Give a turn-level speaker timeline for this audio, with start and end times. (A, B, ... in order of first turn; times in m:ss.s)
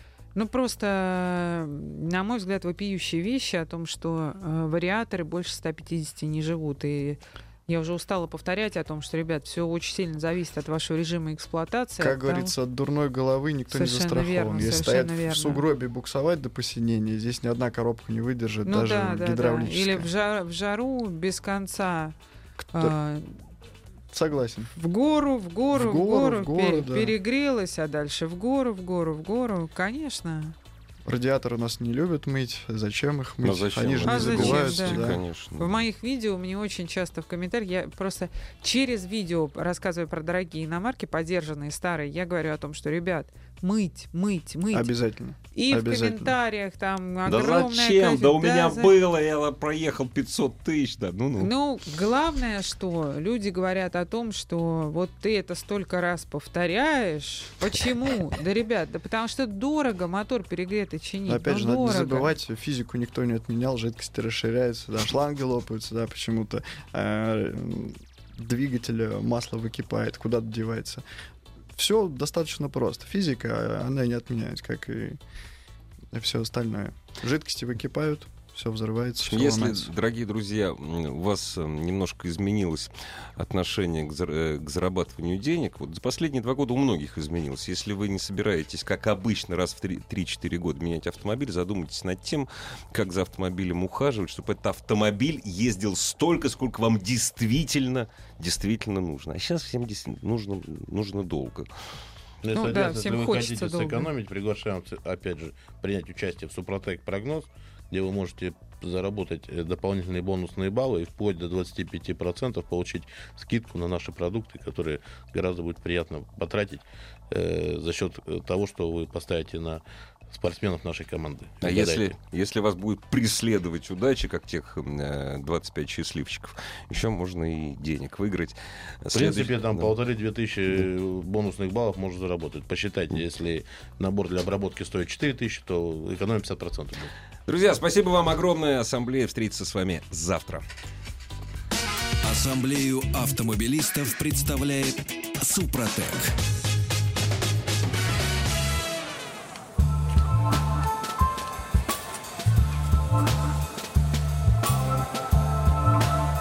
0:00.3-0:12.5 A
0:12.0-0:20.1 B
0:13.7-0:15.6 A
0:18.6-0:22.2 A
0:22.7-0:23.4 A
0:24.1-0:24.7 B
0:24.8-0:30.6 A
0:25.7-0:27.1 B
0:31.0-0:35.2 B
0:33.4-0:35.8 C
0:34.1-0:44.9 A
0:44.7-0:46.3 B
0:45.5-0:48.9 A
0:47.2-0:51.5 C
0:51.4-1:02.3 A
1:01.3-1:11.0 B
1:11.7-1:15.2 B
1:16.1-1:19.9 B
1:19.3-1:41.7 C
1:42.4-2:02.1 D
1:42.5-1:44.1 A
2:01.6-2:09.9 C
2:09.1-2:17.1 D
2:17.5-2:20.6 C
2:22.2-2:26.4 E